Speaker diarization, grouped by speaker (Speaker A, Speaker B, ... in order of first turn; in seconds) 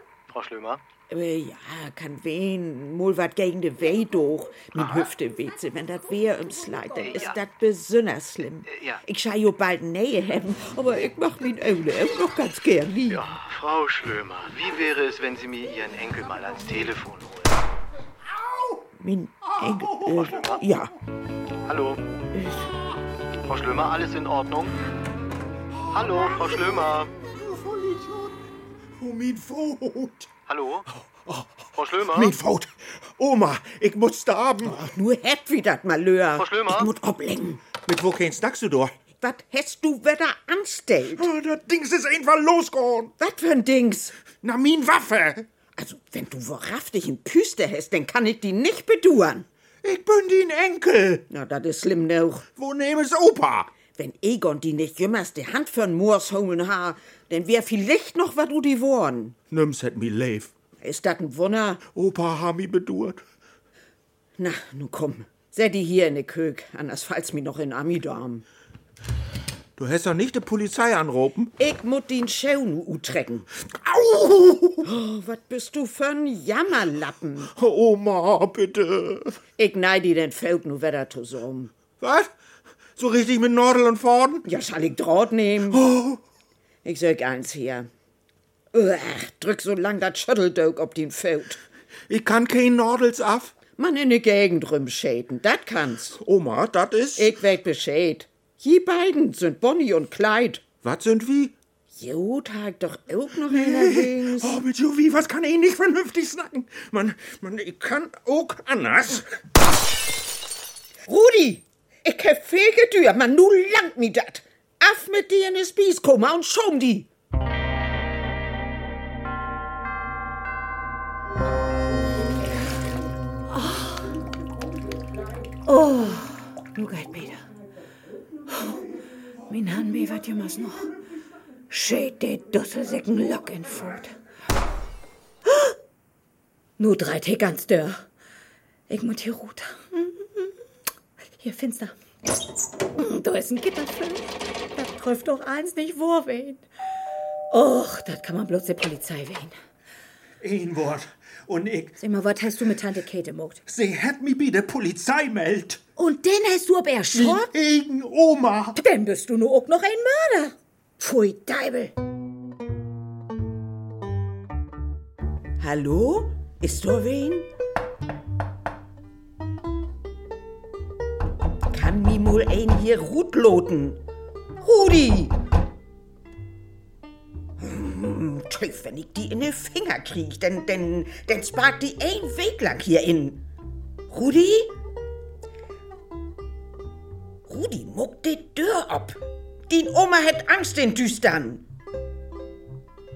Speaker A: 0.3-0.8, 7.0-7.4, 8.7-9.0, 13.1-17.6, 20.3-20.6, 21.7-22.0, 23.4-24.8, 25.9-27.1, 30.5-30.9, 31.8-32.4, 36.4-36.9
Speaker B: 1.1-13.2, 19.0-20.9, 22.3-22.7, 34.6-37.6, 39.2-41.3, 43.2-44.2, 45.8-49.5, 51.3-52.5, 54.0-59.4, 60.8-61.8, 64.4-68.5, 71.6-73.5, 74.8-77.5, 79.6-81.7, 84.5-85.8, 86.8-87.9, 88.7-91.6, 93.8-96.2, 97.2-100.7, 101.9-104.6, 111.0-117.1, 165.6-167.5, 171.7-174.0, 174.6-175.4, 177.6-183.5, 184.1-184.8, 187.5-191.7
Speaker C: 18.2-18.9, 19.4-20.6, 25.8-28.4, 29.0-30.3, 31.1-34.9, 37.8-38.9, 41.1-43.1, 44.4-45.5, 49.8-51.2, 52.6-53.7, 59.5-60.5, 61.9-63.2, 69.8-71.5, 73.7-74.9, 77.5-79.4, 82.0-82.3, 83.0-84.5, 85.7-86.2, 92.1-93.5, 96.2-97.3, 100.8-101.5, 103.5-109.3, 150.4-152.0, 153.7-155.8, 157.1-158.8
Speaker D: 123.5-124.1, 125.7-127.5, 128.5-128.8, 129.5-130.9, 131.7-134.2, 135.5-135.7, 136.8-138.1, 138.9-140.5, 141.4-141.9, 142.9-146.6, 147.5-149.5, 152.0-153.6, 156.0-157.5, 158.8-161.9